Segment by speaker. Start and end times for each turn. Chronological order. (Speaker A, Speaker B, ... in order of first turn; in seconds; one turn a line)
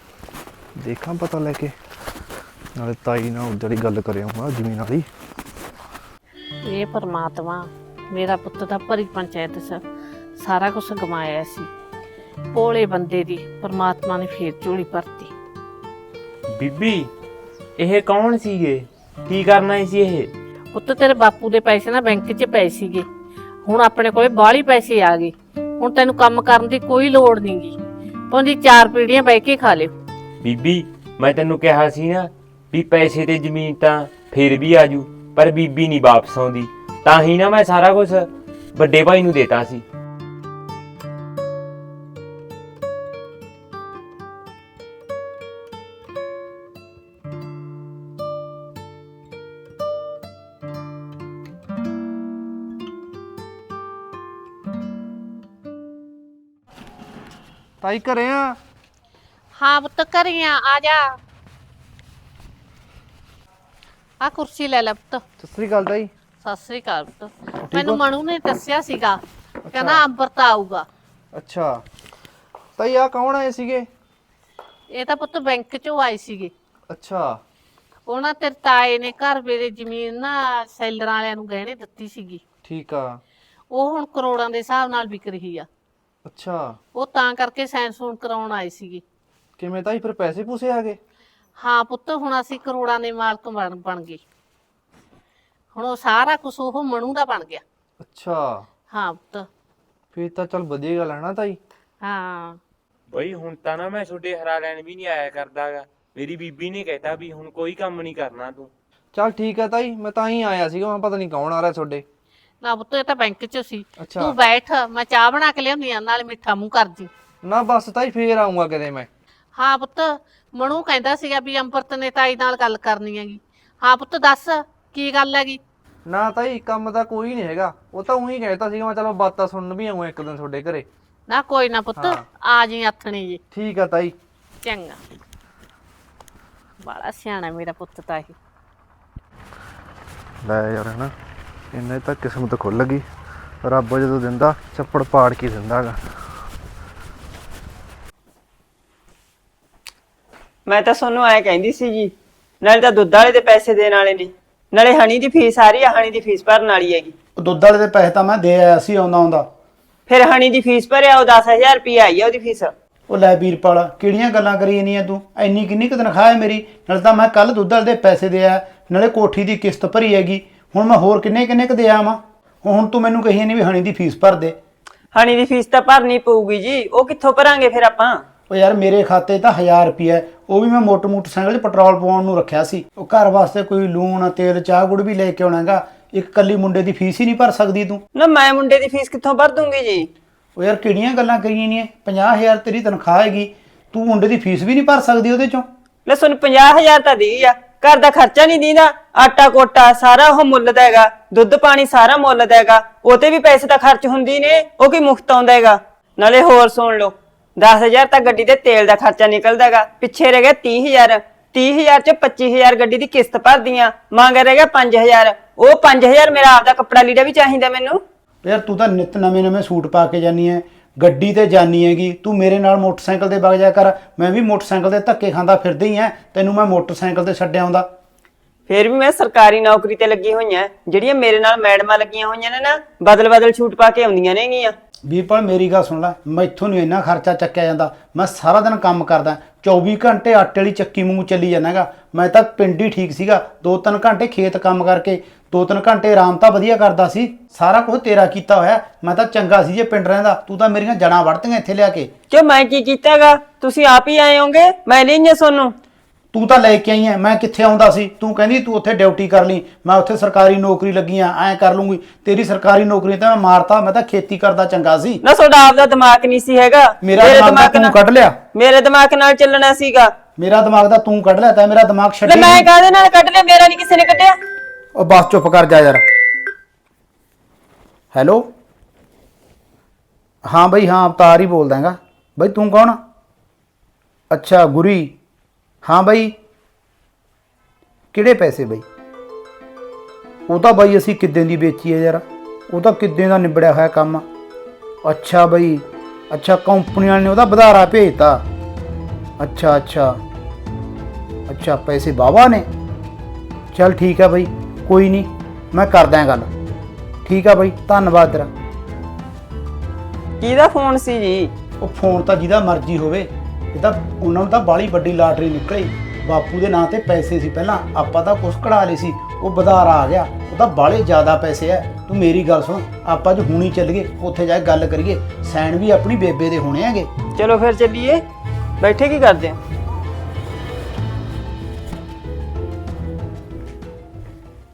Speaker A: 0.8-1.7
Speaker A: 2.8-5.1
Speaker B: 6.7-9.8
Speaker B: 10.4-11.7
Speaker B: 12.5-15.3
Speaker C: 16.5-17.1
Speaker C: 17.8-20.3
Speaker B: 20.7-23.1
Speaker B: 23.6-27.8
Speaker B: 28.3-29.9
Speaker C: 30.4-39.8
Speaker A: 57.8-58.6
Speaker B: 59.6-61.2
Speaker B: 64.2-65.2
Speaker A: 65.4-66.1
Speaker B: 66.4-69.2
Speaker A: 67.6-68.0
Speaker A: 69.7-70.0
Speaker B: 69.7-70.9
Speaker A: 71.3-71.8
Speaker A: 72.8-73.9
Speaker B: 74.9-76.5
Speaker A: 76.9-77.4
Speaker B: 78.1-82.4
Speaker A: 82.7-83.2
Speaker B: 83.7-85.7
Speaker A: 86.2-86.8
Speaker B: 87.0-89.0
Speaker A: 89.6-91.0
Speaker B: 91.6-94.2
Speaker B: 95.8-97.6
Speaker A: 98.0-98.7
Speaker B: 98.9-99.5
Speaker A: 100.1-101.6
Speaker B: 102.0-102.6
Speaker C: 103.1-108.7
Speaker A: 109.1-112.0
Speaker B: 112.6-117.1
Speaker A: 114.0-114.3
Speaker A: 117.4-119.1
Speaker B: 119.6-125.6
Speaker A: 126.1-130.9
Speaker B: 131.3-133.4
Speaker A: 132.0-132.2
Speaker A: 133.5-134.2
Speaker B: 134.6-135.0
Speaker B: 136.8-138.3
Speaker A: 140.4-141.1
Speaker A: 141.7-143.1
Speaker A: 143.6-146.0
Speaker D: 150.7-157.1
Speaker E: 157.4-159.5
Speaker D: 160.1-162.7
Speaker E: 163.1-174.6
Speaker D: 175.1-178.2
Speaker E: 178.5-188.0
Speaker D: 188.2-190.1
Speaker E: 190.6-195.7
Speaker D: 196.1-218.0
Speaker E: 218.4-227.9
Speaker D: 228.7-234.8
Speaker E: 235.1-252.1
Speaker D: 252.3-255.7
Speaker E: 256.3-265.2
Speaker D: 265.2-267.9
Speaker E: 267.0-268.4
Speaker D: 268.6-270.1
Speaker E: 270.4-272.7
Speaker D: 272.3-274.4
Speaker E: 274.9-276.0
Speaker E: 278.1-278.5
Speaker E: 280.5-283.0
Speaker E: 284.3-285.2
Speaker E: 285.8-286.4
Speaker E: 288.1-288.9
Speaker E: 290.5-294.2
Speaker E: 295.0-298.4
Speaker E: 299.4-300.2
Speaker E: 301.5-302.7
Speaker E: 303.7-306.5
Speaker E: 307.2-308.5
Speaker D: 310.4-311.5
Speaker E: 311.8-327.1
Speaker D: 327.4-328.2
Speaker D: 328.8-329.6